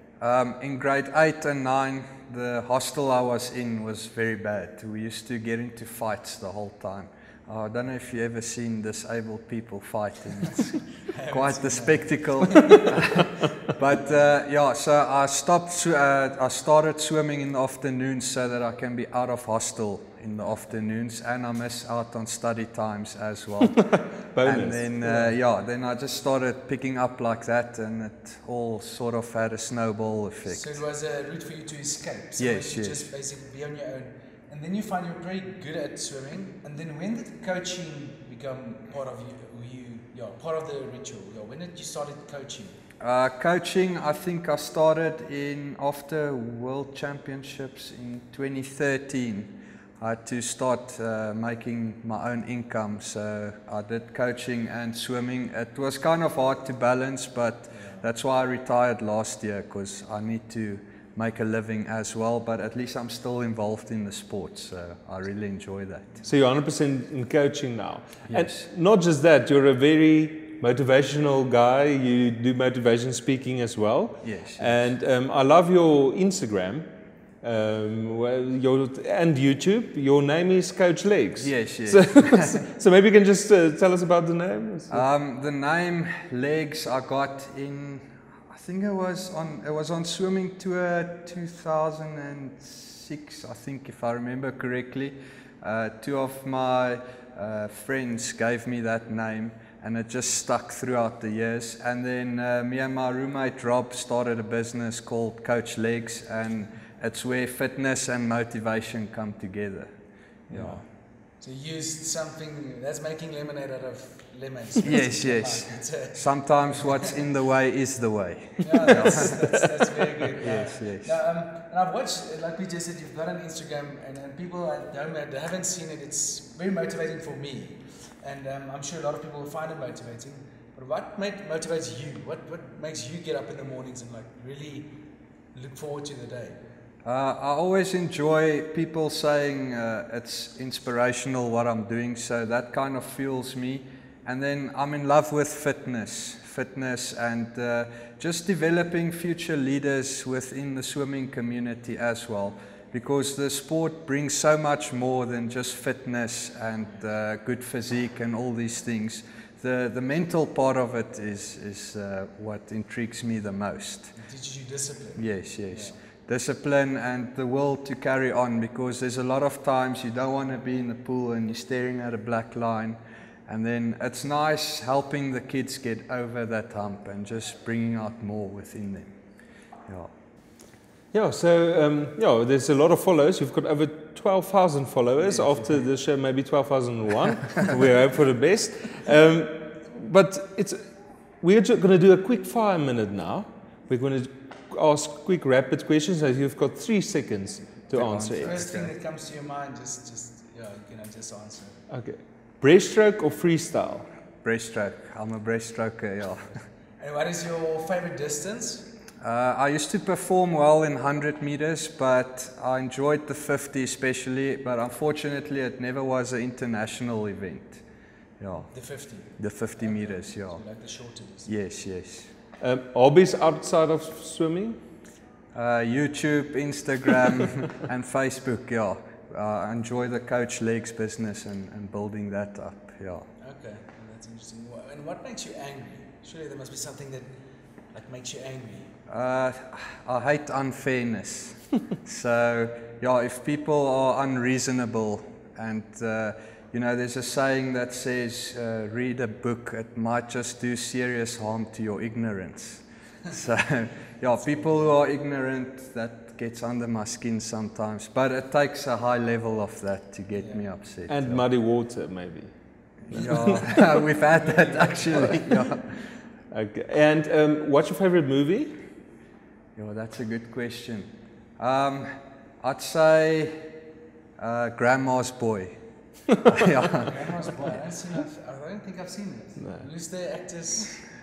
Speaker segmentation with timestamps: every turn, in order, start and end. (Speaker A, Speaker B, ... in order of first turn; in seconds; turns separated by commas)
Speaker A: 0.2-30.8, Speaker B: 11.1-12.8, Speaker C: 23.6-24.9, Speaker B: 30.5-42.7, Speaker A: 32.4-33.1, Speaker A: 43.0-66.2, Speaker B: 57.7-58.0, Speaker C: 66.2-76.9, Speaker A: 68.3-68.7, Speaker A: 74.2-74.8, Speaker C: 77.4-85.0, Speaker A: 81.4-82.6, Speaker A: 84.9-109.9, Speaker A: 110.5-110.8, Speaker B: 110.5-117.2, Speaker A: 114.8-119.4, Speaker B: 118.6-134.9, Speaker A: 120.4-121.1, Speaker B: 135.5-136.6, Speaker A: 137.0-164.1, Speaker B: 164.1-166.0, Speaker A: 165.2-179.1, Speaker C: 181.1-190.8, Speaker C: 191.4-198.5, Speaker A: 197.9-198.9, Speaker B: 198.3-201.8, Speaker C: 201.9-204.1, Speaker A: 204.4-206.6, Speaker B: 207.0-208.9, Speaker A: 209.2-217.8, Speaker A: 218.4-220.6, Speaker B: 218.7-221.5, Speaker A: 221.4-222.3, Speaker C: 222.6-224.8, Speaker A: 225.5-233.3, Speaker B: 233.4-237.3, Speaker B: 237.9-238.9, Speaker A: 239.1-261.4, Speaker B: 254.4-254.9, Speaker B: 260.3-260.6, Speaker C: 261.1-263.9, Speaker A: 263.1-266.0, Speaker B: 263.6-265.6, Speaker C: 266.5-268.8, Speaker A: 269.8-272.1, Speaker A: 272.6-273.7, Speaker A: 274.4-275.8, Speaker A: 276.4-277.1, Speaker B: 277.0-281.0, Speaker C: 279.6-279.8